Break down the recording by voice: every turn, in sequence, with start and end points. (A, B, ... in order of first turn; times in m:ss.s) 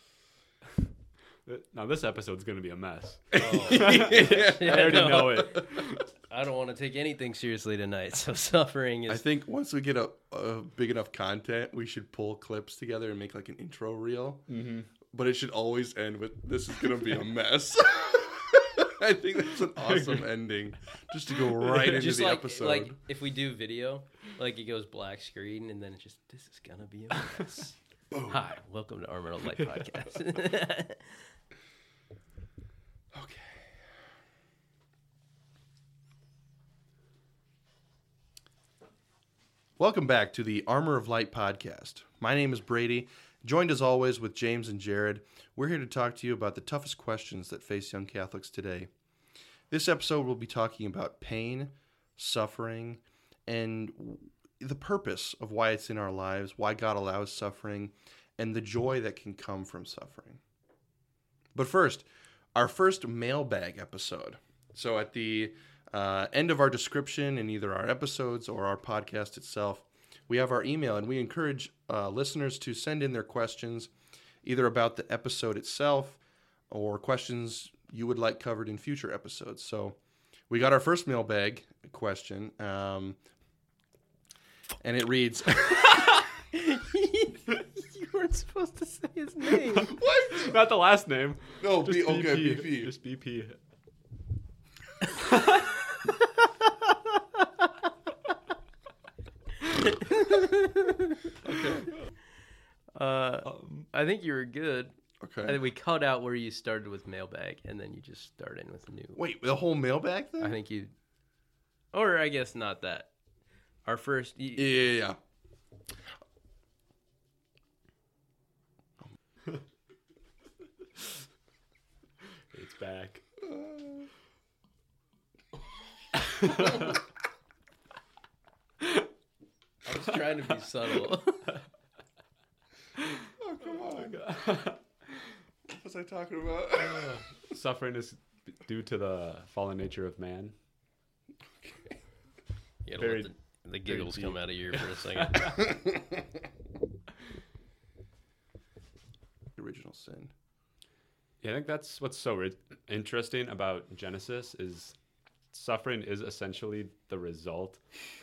0:01.5-0:06.0 A
0:03.4-0:05.3 B
0:03.4-0:09.2 C
0:09.1-0:14.5 B
0:14.5-0:14.9 A
0:15.1-0:23.0 B
0:19.9-0:20.2 A
0:21.8-0:31.2 C
0:33.1-0:33.7 B
0:39.8-0:48.9 B
0:49.7-1:00.4 B
1:01.5-1:13.9 B
1:14.4-1:20.0 B
1:20.5-1:23.2 B
1:24.8-1:26.0 B
1:26.5-1:30.0 C
1:29.9-1:33.6 A
1:29.9-1:30.6 B
1:31.6-1:32.9 B
1:39.7-1:41.1 C
1:41.4-1:41.9 B
1:43.0-1:49.2 C
1:43.4-1:43.9 A
1:45.2-1:45.6 B
1:49.2-1:50.6 B
1:50.4-1:50.9 C
1:51.9-1:53.1 C
1:53.8-1:54.8 C
1:54.6-1:55.2 B
2:02.5-2:03.2 A
2:03.5-2:04.1 B
2:06.4-2:06.8 A
2:09.8-2:11.5 C
2:13.4-2:14.2 B
2:13.8-2:14.8 A
2:15.7-2:17.2 B
2:16.7-2:20.5 A
2:21.6-2:21.9 B
2:22.8-2:25.6 C
2:23.0-2:23.3 A
2:23.9-2:25.6 A
2:29.6-2:30.3 B
2:31.4-2:35.0 A
2:35.5-2:37.8 A